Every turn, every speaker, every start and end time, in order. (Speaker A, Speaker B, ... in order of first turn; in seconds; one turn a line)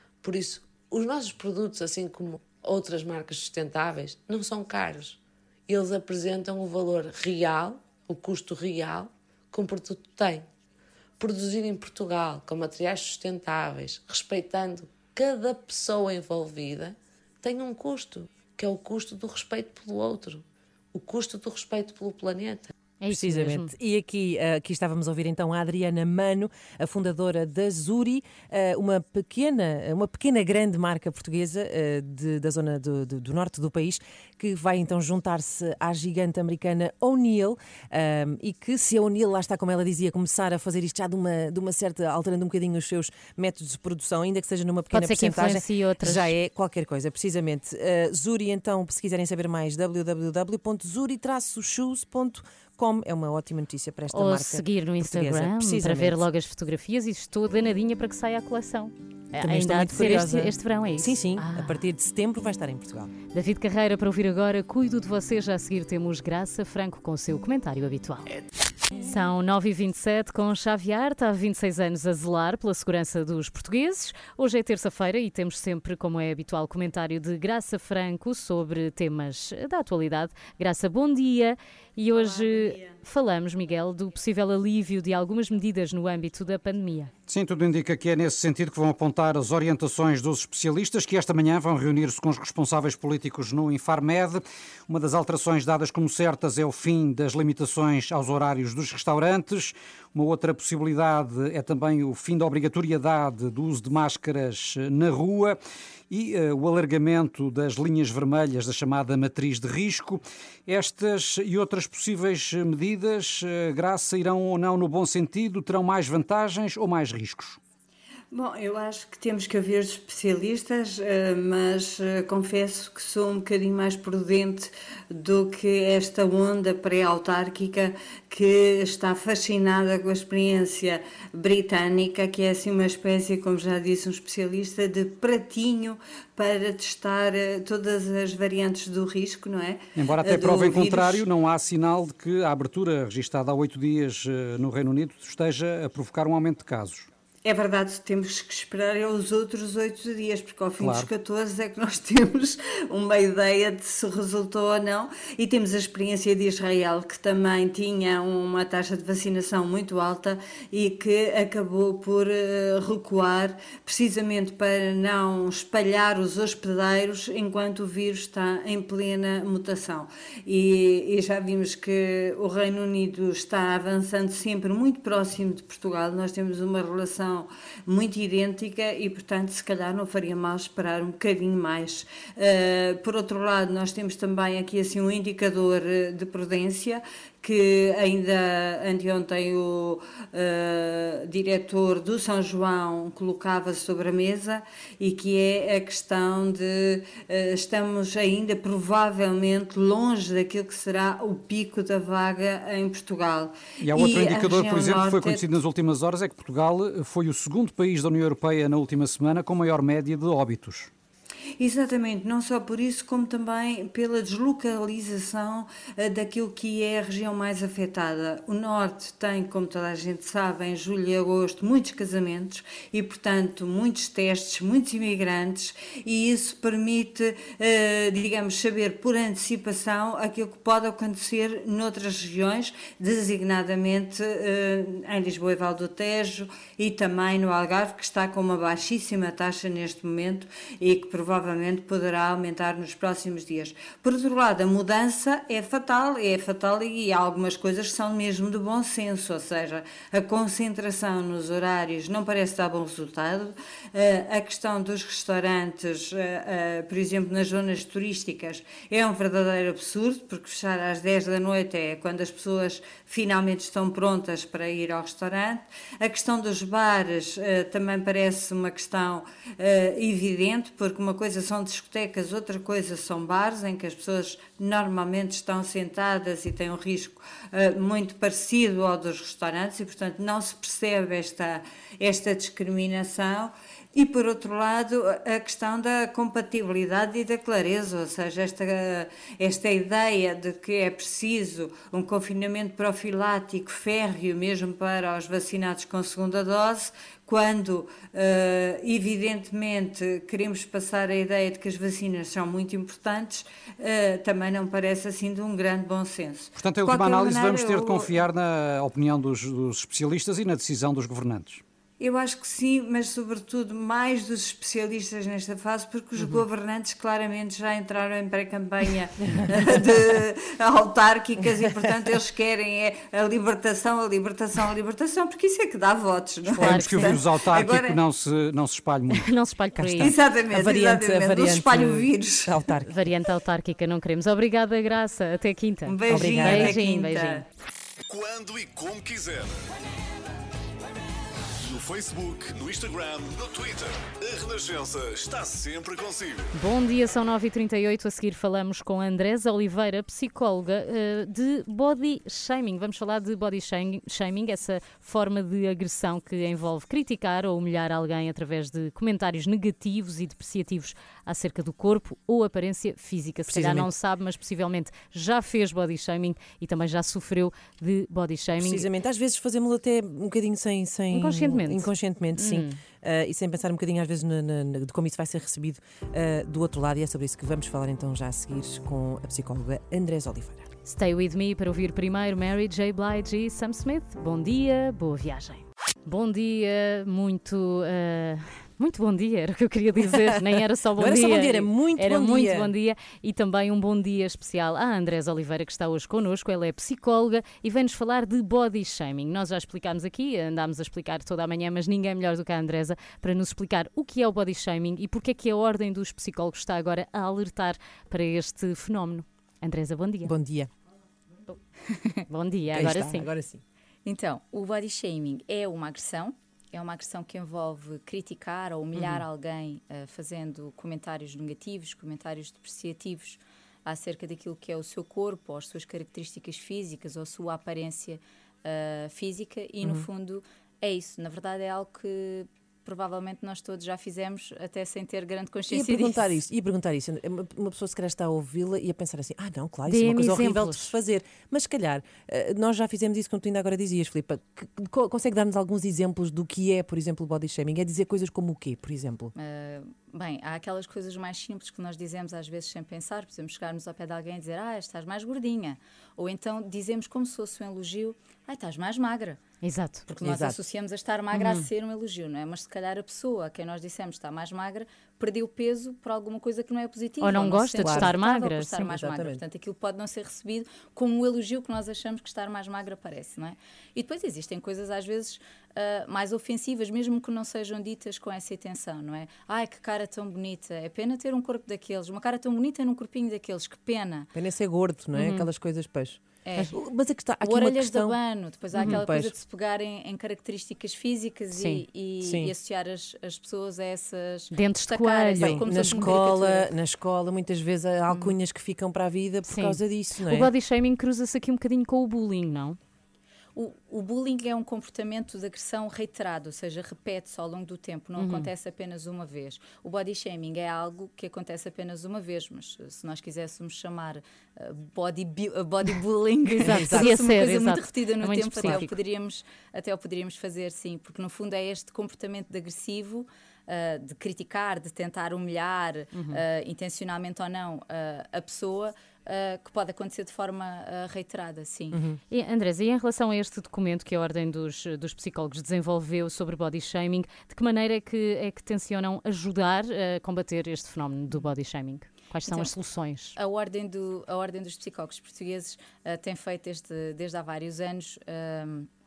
Speaker A: 0.2-10.5
Speaker A: 11.2-22.7
Speaker B: 23.0-23.7
Speaker C: 23.1-56.2
Speaker B: 44.9-46.3
Speaker B: 54.1-61.8
Speaker C: 59.4-63.1
Speaker B: 63.3-68.3
Speaker B: 69.0-87.1
Speaker D: 87.3-105.6
Speaker D: 106.1-117.6
Speaker E: 118.3-141.2
Speaker D: 140.0-147.1
Speaker E: 147.4-205.4
Speaker D: 150.8-151.1
Speaker D: 203.8-210.9
Speaker E: 211.6-308.2
Speaker D: 306.6-311.6
Speaker E: 312.0-328.0
Speaker D: 326.6-329.3
Speaker B: 326.6-327.2
Speaker B: 329.1-330.1
Speaker C: 329.8-332.9
Speaker E: 330.0-332.5
Speaker B: 332.9-337.4
Speaker E: 335.9-337.4
Speaker C: 336.1-336.8
Speaker F: 338.1-339.7
Speaker F: 341.6-346.5
Speaker B: 346.6-368.9
Speaker C: 363.5-363.9
Speaker C: 368.6-380.7
Speaker B: 371.1-372.8
Speaker B: 380.9-410.3
Speaker C: 390.1-390.4
Speaker C: 391.0-392.7
Speaker C: 410.2-410.7
Speaker G: 411.9-412.2
Speaker B: 412.3-413.3
Speaker C: 412.7-413.6
Speaker G: 414.1-436.3
Speaker C: 435.7-449.3
Speaker B: 439.9-440.9
Speaker G: 449.4-459.4
Speaker B: 459.6-460.1
Speaker C: 460.1-460.6
Speaker G: 460.1-484.3
Speaker B: 461.3-461.6
Speaker B: 467.2-468.9
Speaker C: 467.8-468.2
Speaker C: 468.9-469.4
Speaker C: 484.3-488.2
Speaker B: 485.1-485.5
Speaker G: 486.4-486.8
Speaker G: 487.4-496.7
Speaker C: 488.8-489.4
Speaker B: 488.8-489.0
Speaker B: 491.5-491.8
Speaker C: 492.2-492.5
Speaker B: 494.5-496.2
Speaker C: 495.4-500.5
Speaker B: 499.5-502.8
Speaker G: 503.6-532.0
Speaker B: 508.2-508.5
Speaker B: 516.5-518.9
Speaker C: 516.6-517.2
Speaker B: 526.1-526.4
Speaker C: 531.9-532.2
Speaker B: 532.3-543.4
Speaker G: 542.5-542.8
Speaker G: 543.4-548.9